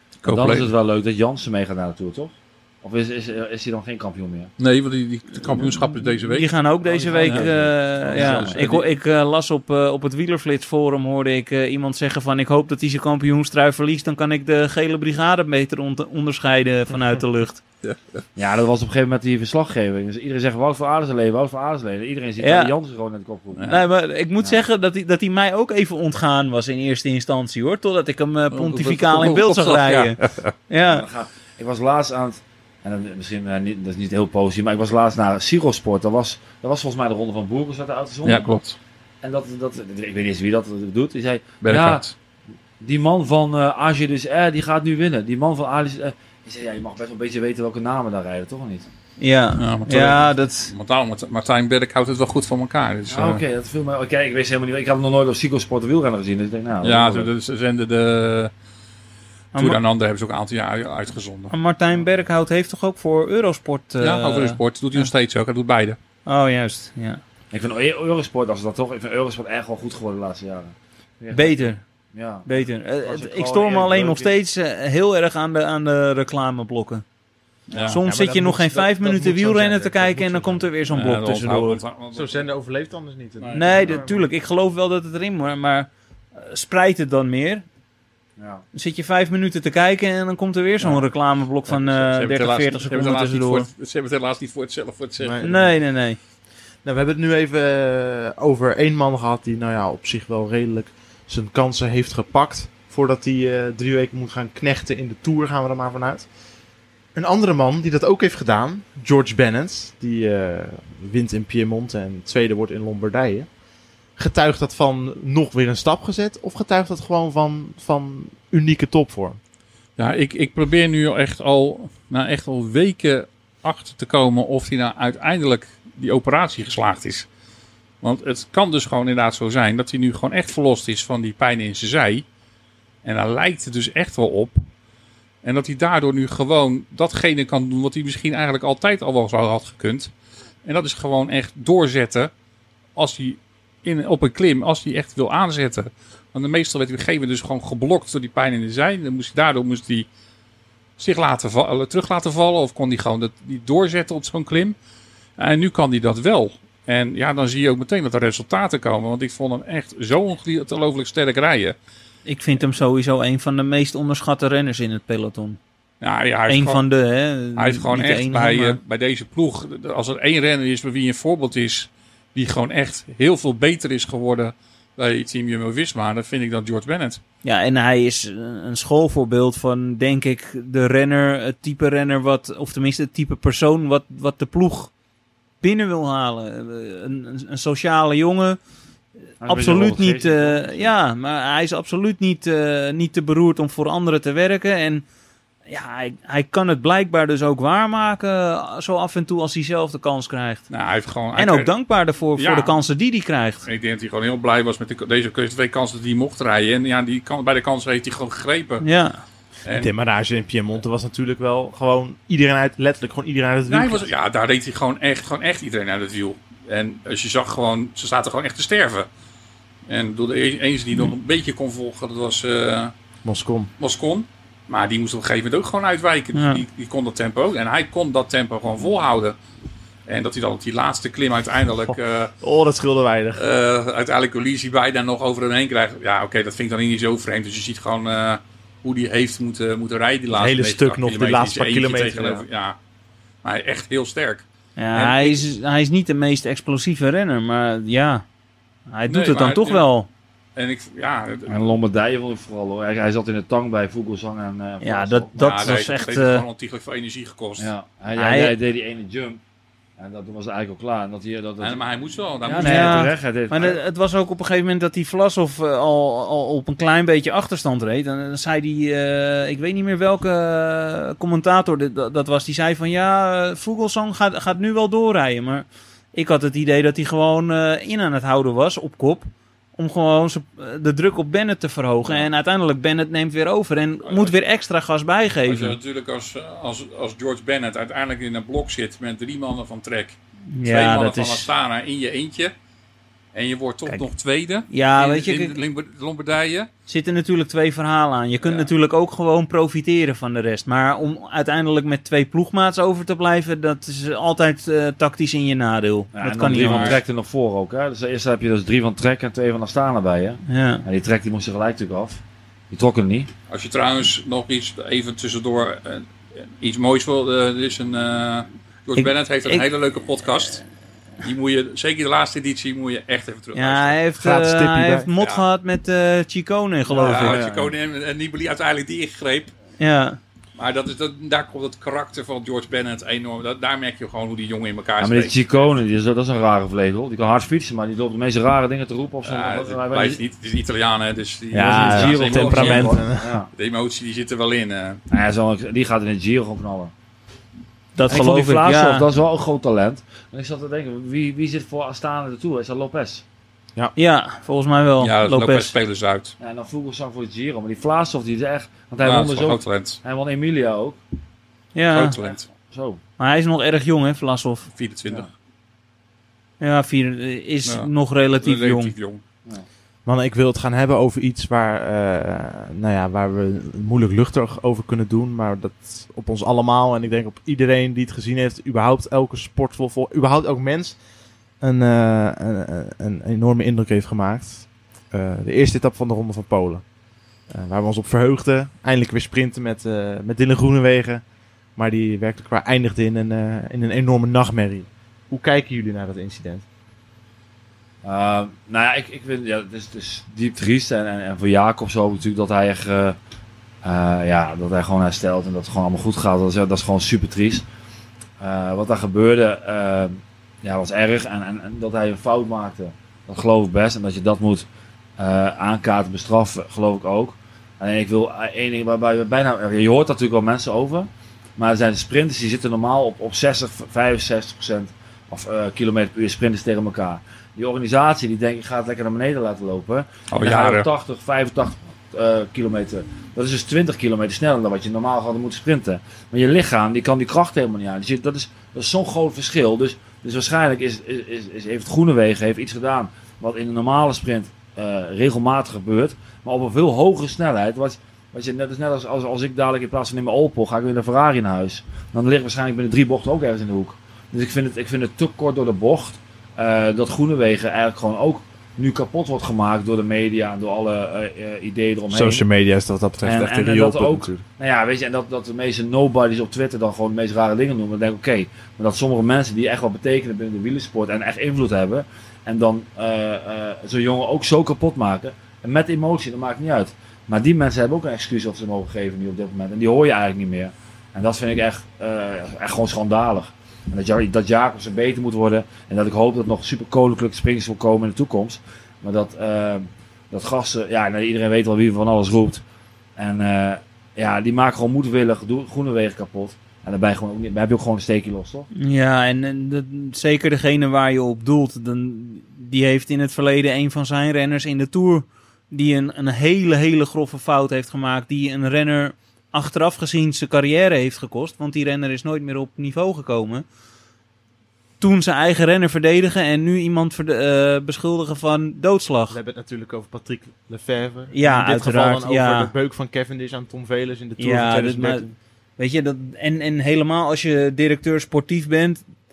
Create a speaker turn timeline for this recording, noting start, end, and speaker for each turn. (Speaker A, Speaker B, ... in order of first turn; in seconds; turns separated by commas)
Speaker A: 0.2-0.7, Speaker B: 0.2-4.5, Speaker A: 4.6-6.5, Speaker C: 5.6-17.6, Speaker B: 6.8-8.6, Speaker A: 7.2-7.5, Speaker A: 8.1-8.8, Speaker A: 17.8-18.2, Speaker B: 18.4-23.8, Speaker C: 22.4-22.7, Speaker A: 23.5-23.8, Speaker C: 23.7-31.1, Speaker A: 28.5-30.5, Speaker B: 30.9-38.5, Speaker A: 38.2-38.8, Speaker B: 39.2-42.0, Speaker A: 41.6-42.1, Speaker B: 42.8-48.9, Speaker C: 49.2-50.7, Speaker A: 49.6-53.4, Speaker B: 53.1-57.3, Speaker A: 56.8-58.5, Speaker A: 59.5-61.5, Speaker C: 61.5-65.1, Speaker A: 64.0-66.0, Speaker C: 66.2-67.2, Speaker B: 67.5-74.3, Speaker C: 71.3-71.8, Speaker C: 72.5-77.0, Speaker A: 77.7-78.0, Speaker C: 77.9-81.8, Speaker D: 78.0-80.7, Speaker A: 80.9-82.4, Speaker D: 82.1-84.3, Speaker A: 83.4-83.8, Speaker C: 83.5-87.6, Speaker B: 88.4-88.6, Speaker C: 88.7-93.7, Speaker A: 91.7-95.4, Speaker D: 95.2-95.7, Speaker C: 95.4-96.2, Speaker D: 96.8-106.3, Speaker D: 107.1-113.5, Speaker D: 114.2-119.4, Speaker A: 120.0-127.2, Speaker A: 128.0-132.2, Speaker A: 133.0-134.6, Speaker A: 135.4-140.1, Speaker A: 140.6-142.3, Speaker A: 142.9-150.1, Speaker A: 151.0-154.7, Speaker A: 155.4-161.8, Speaker C: 162.2-165.6, Speaker A: 166.0-166.8, Speaker C: 166.5-168.8, Speaker A: 167.5-177.2, Speaker C: 177.4-184.9, Speaker C: 185.6-188.6, Speaker B: 189.4-190.9, Speaker C: 189.4-195.0, Speaker C: 195.7-200.7, Speaker A: 200.7-201.7, Speaker C: 201.3-203.7, Speaker A: 202.3-202.8, Speaker A: 203.7-208.8, Speaker C: 208.8-209.2, Speaker D: 209.7-214.1, Speaker A: 213.7-219.1, Speaker A: 219.9-222.9, Speaker D: 223.2-223.7, Speaker A: 223.8-229.3, Speaker C: 226.3-226.6, Speaker A: 230.1-232.3, Speaker D: 231.9-233.4, Speaker A: 233.3-242.8, Speaker D: 240.3-242.4, Speaker A: 243.4-245.4, Speaker C: 244.8-248.2, Speaker C: 248.9-250.1, Speaker A: 249.1-249.8, Speaker A: 250.6-251.5, Speaker B: 251.5-255.4, Speaker C: 254.8-256.4, Speaker A: 255.4-257.7, Speaker B: 257.6-259.4, Speaker C: 258.1-258.6, Speaker B: 260.0-261.9, Speaker A: 261.6-263.1, Speaker B: 262.4-263.8, Speaker C: 262.6-285.8, Speaker A: 284.0-284.3, Speaker A: 285.4-292.5, Speaker C: 290.5-291.5, Speaker A: 293.3-296.7, Speaker C: 294.7-295.5, Speaker C: 296.9-307.0, Speaker B: 306.1-313.3, Speaker A: 306.5-307.0, Speaker C: 310.4-310.8, Speaker A: 313.5-320.6, Speaker C: 319.0-319.6, Speaker A: 321.2-324.0, Speaker C: 323.5-327.4, Speaker D: 324.2-325.1, Speaker A: 325.2-325.4, Speaker B: 326.9-327.7, Speaker A: 327.0-329.5, Speaker C: 329.8-330.2, Speaker A: 330.5-335.4, Speaker B: 335.0-340.2, Speaker A: 339.2-345.0, Speaker D: 341.5-343.4, Speaker B: 341.7-343.5, Speaker B: 345.1-346.9, Speaker C: 347.9-349.1, Speaker B: 348.1-353.2, Speaker C: 353.9-355.7, Speaker A: 355.0-356.3, Speaker B: 356.4-361.0, Speaker A: 359.0-360.0, Speaker C: 361.7-362.1, Speaker A: 361.9-362.4, Speaker B: 362.2-363.0, Speaker C: 363.2-364.7, Speaker A: 364.7-365.3, Speaker C: 366.6-368.9, Speaker A: 368.4-369.2, Speaker D: 370.1-381.0, Speaker D: 381.6-386.8, Speaker D: 387.5-391.2, Speaker D: 391.8-396.6, Speaker B: 398.0-403.2, Speaker B: 403.8-407.6, Speaker B: 408.4-414.7, Speaker B: 415.2-462.4, Speaker A: 430.3-430.9, Speaker D: 462.1-464.4, Speaker B: 463.2-492.6, Speaker B: 493.2-498.7, Speaker C: 498.7-513.6, Speaker C: 515.0-519.4, Speaker D: 519.3-525.3, Speaker C: 521.3-522.7, Speaker C: 524.4-525.2, Speaker C: 525.8-529.0